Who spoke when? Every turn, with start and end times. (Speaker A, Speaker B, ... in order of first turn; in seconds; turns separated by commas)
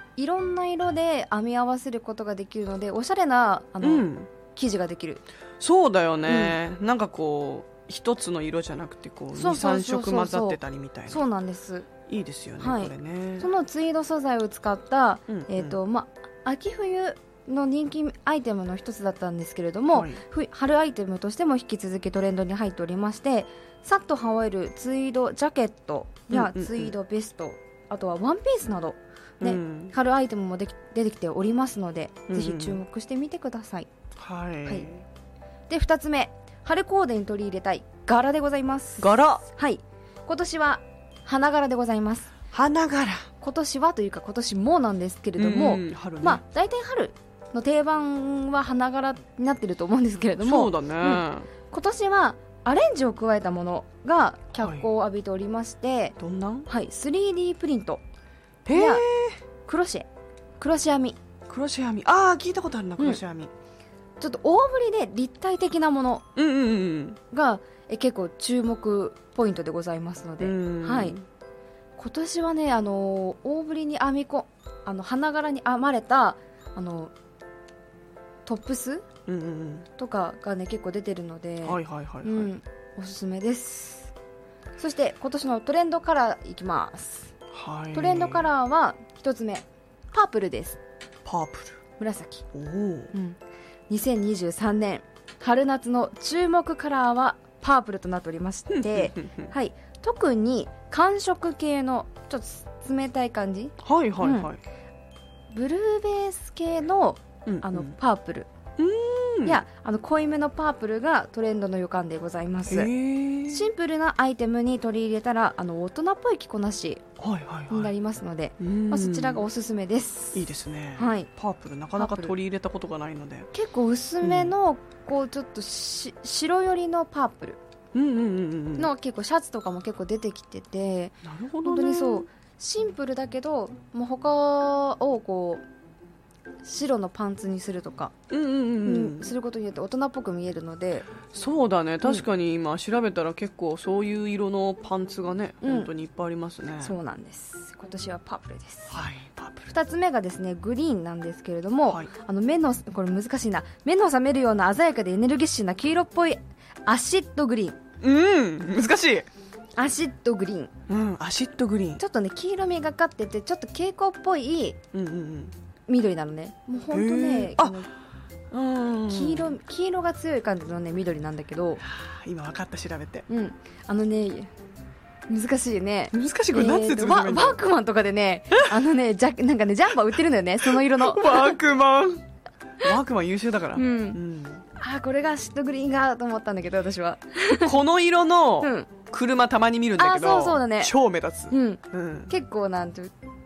Speaker A: 0.2-5.2, Speaker B: 3.8-4.3, Speaker B: 5.6-11.2, Speaker A: 6.3-6.6, Speaker A: 9.3-11.9, Speaker B: 12.1-13.5, Speaker A: 12.6-33.9, Speaker B: 15.3-15.8, Speaker B: 19.9-20.2, Speaker B: 26.3-26.9, Speaker B: 29.4-29.9, Speaker B: 32.3-32.8, Speaker B: 34.2-35.0, Speaker A: 35.7-42.3, Speaker B: 39.0-39.4, Speaker B: 42.5-43.3, Speaker A: 43.4-58.0, Speaker B: 45.4-46.4, Speaker B: 50.4-51.5, Speaker B: 54.6-54.9, Speaker B: 56.2-56.7, Speaker B: 58.6-59.4, Speaker A: 58.7-59.0, Speaker A: 59.6-60.1, Speaker A: 60.6-61.2, Speaker B: 61.5-63.5, Speaker A: 64.2-66.3, Speaker B: 66.4-67.2, Speaker A: 67.3-71.2, Speaker B: 70.4-71.3, Speaker A: 72.0-77.1, Speaker A: 78.5-79.1, Speaker B: 79.3-79.9, Speaker A: 80.0-84.1, Speaker B: 81.6-82.5, Speaker A: 84.8-87.3, Speaker B: 87.5-88.5, Speaker A: 87.9-90.8, Speaker B: 91.2-91.8, Speaker A: 92.0-92.5, Speaker B: 92.5-93.1, Speaker A: 93.1-93.4, Speaker A: 93.9-104.5, Speaker B: 98.7-99.5, Speaker B: 103.8-104.6, Speaker A: 105.5-108.5, Speaker B: 107.5-107.9, Speaker B: 108.8-109.6, Speaker A: 109.5-112.9, Speaker B: 112.7-113.6, Speaker A: 113.5-117.0, Speaker B: 117.2-117.9, Speaker A: 117.7-121.3, Speaker B: 118.6-119.4, Speaker B: 120.3-123.5, Speaker A: 122.0-122.3, Speaker A: 123.5-127.6, Speaker B: 124.2-124.5, Speaker B: 127.9-128.9, Speaker A: 128.8-135.6, Speaker B: 131.2-132.3, Speaker A: 136.6-138.1, Speaker B: 138.3-139.3, Speaker A: 138.8-141.2, Speaker B: 141.3-146.9, Speaker A: 145.6-145.9, Speaker A: 146.8-149.0, Speaker B: 148.9-149.7, Speaker A: 149.7-157.8, Speaker B: 158.0-159.3, Speaker A: 159.8-160.7, Speaker B: 160.9-162.0, Speaker A: 162.0-164.8, Speaker B: 164.9-165.6, Speaker A: 165.9-167.9, Speaker B: 166.9-167.8, Speaker B: 168.5-169.5, Speaker A: 169.1-171.8, Speaker B: 171.8-173.3, Speaker A: 173.3-174.5, Speaker A: 175.3-181.6, Speaker B: 176.1-177.6, Speaker B: 180.7-182.2, Speaker B: 182.8-184.6, Speaker A: 183.8-184.2, Speaker A: 184.8-187.8, Speaker B: 187.6-192.3, Speaker A: 188.6-188.9, Speaker A: 190.0-190.9, Speaker A: 191.5-193.1